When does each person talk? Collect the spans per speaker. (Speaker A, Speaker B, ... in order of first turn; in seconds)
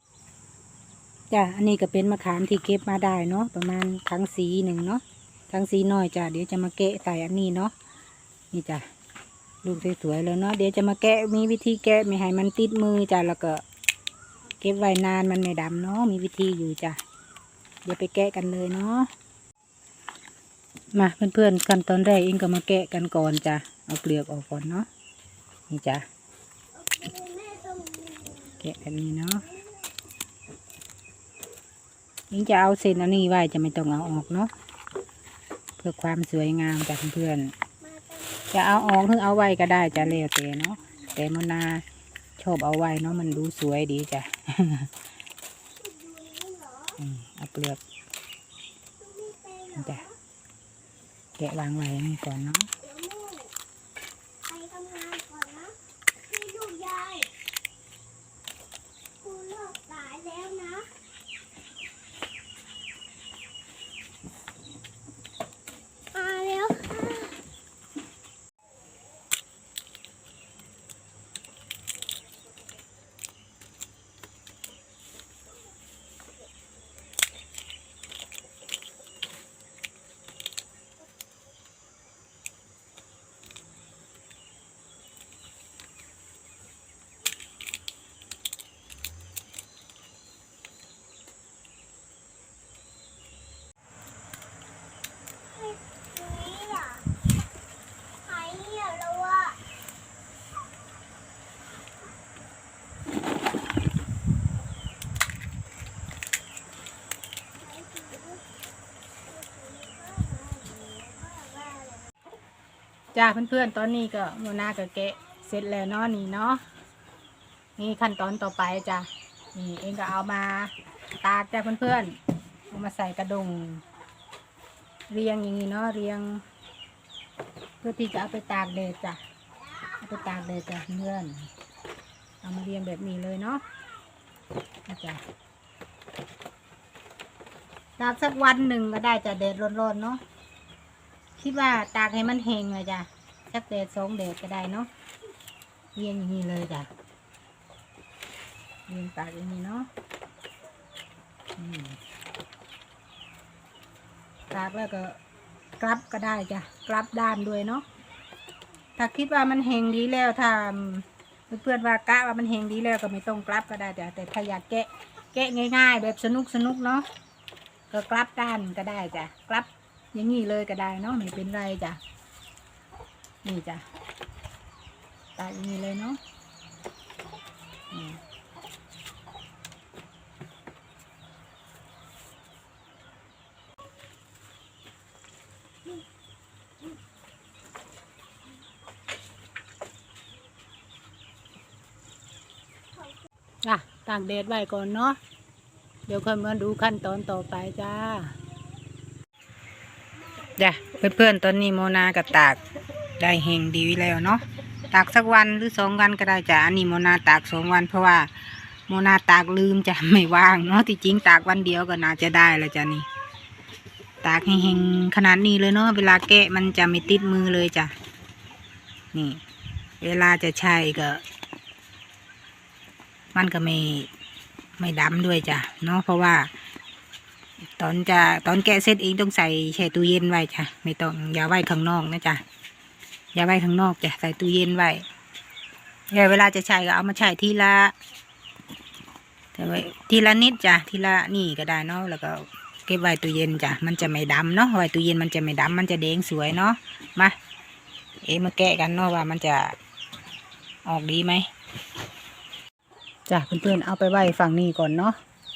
Speaker A: 1.3-7.7, 8.5-8.8, 9.6-13.6, 14.6-17.0, 17.9-19.1, 20.9-24.9, 25.7-26.1, 28.6-29.5, 32.3-34.5, 35.8-37.5, 38.5-41.9, 42.4-44.9, 47.0-47.8, 49.8-50.0, 51.4-52.7, 113.1-116.6, 117.8-122.2, 122.7-123.8, 125.1-126.4, 127.8-129.2, 130.0-131.5, 132.4-133.6, 134.9-135.2, 138.0-140.2, 141.4-144.9, 145.9-146.9, 148.9-149.9, 151.6-152.0, 154.5-155.2, 155.8-157.8, 159.0-167.1, 167.9-172.0, 173.4-173.8, 175.4-176.2, 177.9-178.2, 193.6-195.2, 196.1-198.4, 200.6-202.6, 203.2-213.1, 214.2-217.9, 219.1-219.4, 220.0-221.2, 223.3-224.1, 224.8-226.5, 227.8-232.4, 233.3-235.0, 236.1-237.9, 239.5-247.4, 248.2-249.7, 250.9-251.5, 253.3-255.2
Speaker B: 26.8-28.6, 29.5-29.9, 37.8-39.1, 45.8-47.0, 49.0-50.1, 52.8-53.5, 54.5-57.3, 59.2-60.9, 66.1-67.4, 95.5-97.1, 98.2-99.6, 107.6-108.4, 109.3-112.1